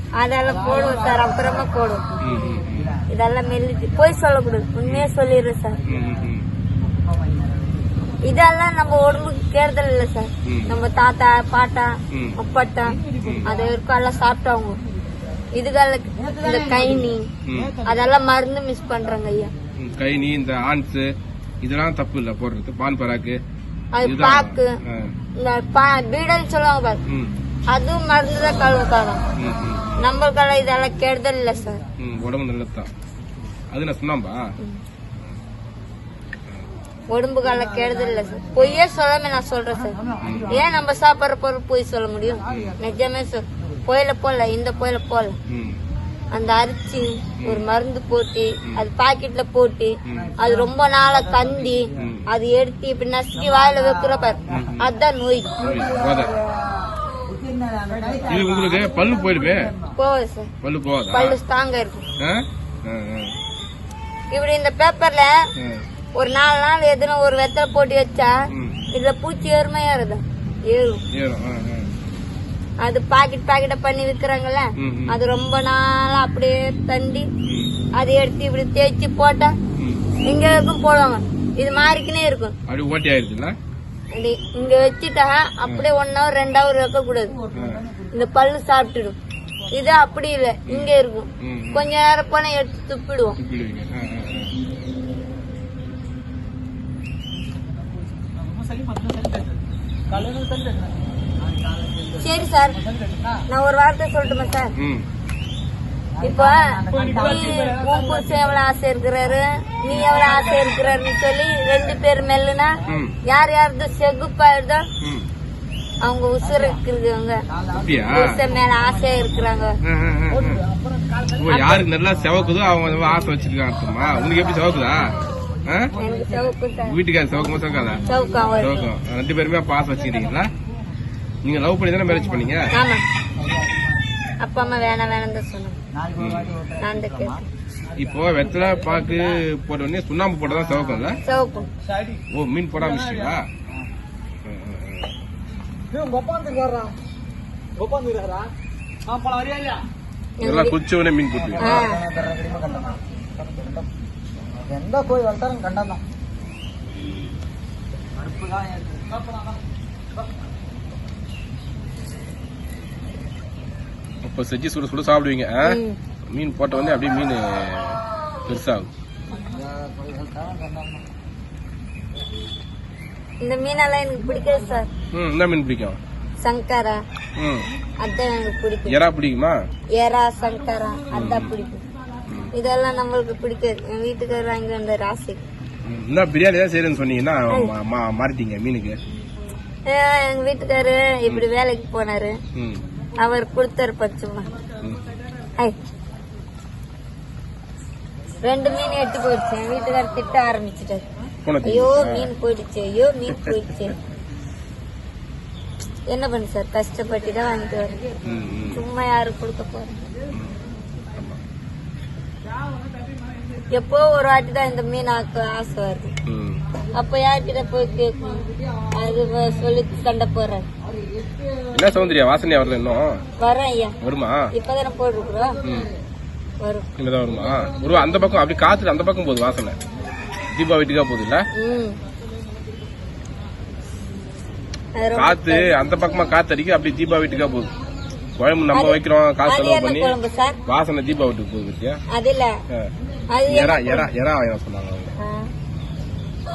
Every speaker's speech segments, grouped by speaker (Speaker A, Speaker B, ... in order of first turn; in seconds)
Speaker A: 0.2-2.0, 3.1-5.8, 8.2-14.8, 15.5-17.3, 17.9-19.5, 23.9-24.8, 25.4-27.0, 27.7-29.2, 30.0-31.8, 37.1-40.0, 40.5-45.4, 46.3-55.5, 60.0-60.5, 61.1-62.0, 64.3-65.3, 66.2-68.3, 68.9-71.0, 72.8-77.3, 78.0-79.5, 80.2-82.5, 84.1-87.4, 88.1-89.2, 89.7-93.4, 102.2-102.8, 103.5-104.7, 106.2-114.9, 116.0-117.4, 118.1-119.8, 126.0-127.0, 128.1-128.9, 132.7-133.0, 134.4-135.8, 136.8-137.5, 141.2-141.7, 150.4-150.8, 151.6-152.0, 165.6-166.0, 173.4-174.9, 176.4-177.0, 178.0-179.0, 179.9-181.8, 182.5-185.4, 189.9-192.4, 193.2-194.5, 198.4-201.1, 201.6-204.0, 206.1-208.0, 208.7-210.0, 213.7-216.1, 216.9-220.7, 223.4-224.0, 224.5-225.6, 231.6-232.0, 235.0-235.8, 238.7-240.6, 242.1-242.5, 243.3-244.1, 245.2-245.5
Speaker B: 0.5-2.8, 12.8-15.5, 17.5-18.1, 57.9-58.4, 89.4-90.2, 97.3-101.0, 102.7-103.5, 106.9-108.6, 109.9-111.0, 120.3-122.4, 129.7-131.0, 137.8-139.4, 140.7-141.1, 141.7-142.2, 142.8-143.4, 145.9-146.9, 147.8-148.5, 149.1-149.8, 159.1-159.6, 169.3-169.7, 180.4-182.5, 194.6-195.5, 212.4-213.8
Speaker C: 0.5-5.0, 5.7-8.3, 16.1-17.2, 19.0-19.8, 37.4-38.9, 39.7-41.0, 42.2-43.9, 50.1-52.1, 53.4-54.8, 55.3-60.0, 87.2-88.5, 101.4-102.4, 106.1-107.8, 116.4-116.8, 117.5-119.7, 122.1-123.5, 124.0-126.6, 127.3-128.9, 132.0-132.8, 133.4-134.0, 134.8-135.1, 135.9-137.4, 140.5-141.6, 151.3-153.9, 154.5-156.0, 158.2-159.1, 169.4-171.1, 217.8-219.8, 220.8-222.4, 225.1-225.9, 227.2-228.6
Speaker D: 2.2-3.0, 5.9-6.5, 10.4-10.8, 12.1-12.4, 13.2-13.5, 17.5-17.8, 19.8-21.1, 21.6-23.4, 24.0-25.1, 27.1-27.3, 29.4-30.0, 32.0-32.9, 33.7-34.5, 40.2-40.7, 42.5-42.8, 45.5-45.8, 47.4-47.6, 50.1-50.3, 52.0-52.2, 54.5-54.8, 55.6-56.3, 58.3-59.7, 60.6-61.4, 62.2-63.3, 65.6-65.8, 68.5-68.8, 71.1-71.9, 74.8-75.2, 77.5-77.7, 79.8-80.0, 82.7-83.5, 87.5-87.8, 90.7-91.9, 93.4-94.5, 104.8-105.1, 112.9-113.1, 115.0-115.3, 117.8-118.3, 119.8-120.6, 121.4-125.1, 126.9-130.5, 131.4-132.7, 136.2-136.6, 138.0-141.2, 142.3-143.5, 144.4-145.1, 150.4-151.9, 164.2-165.8, 166.3-168.9, 175.1-176.0, 177.4-177.7, 178.9-179.6, 181.1-181.5, 185.8-189.0, 192.6-192.8, 201.4-202.3, 208.2-208.8, 210.3-210.6, 216.3-216.6, 221.7-223.2, 224.0-224.5, 227.0-229.8, 230.5-231.5, 235.2-237.7, 238.4-240.1, 240.7-242.0, 243.5-245.1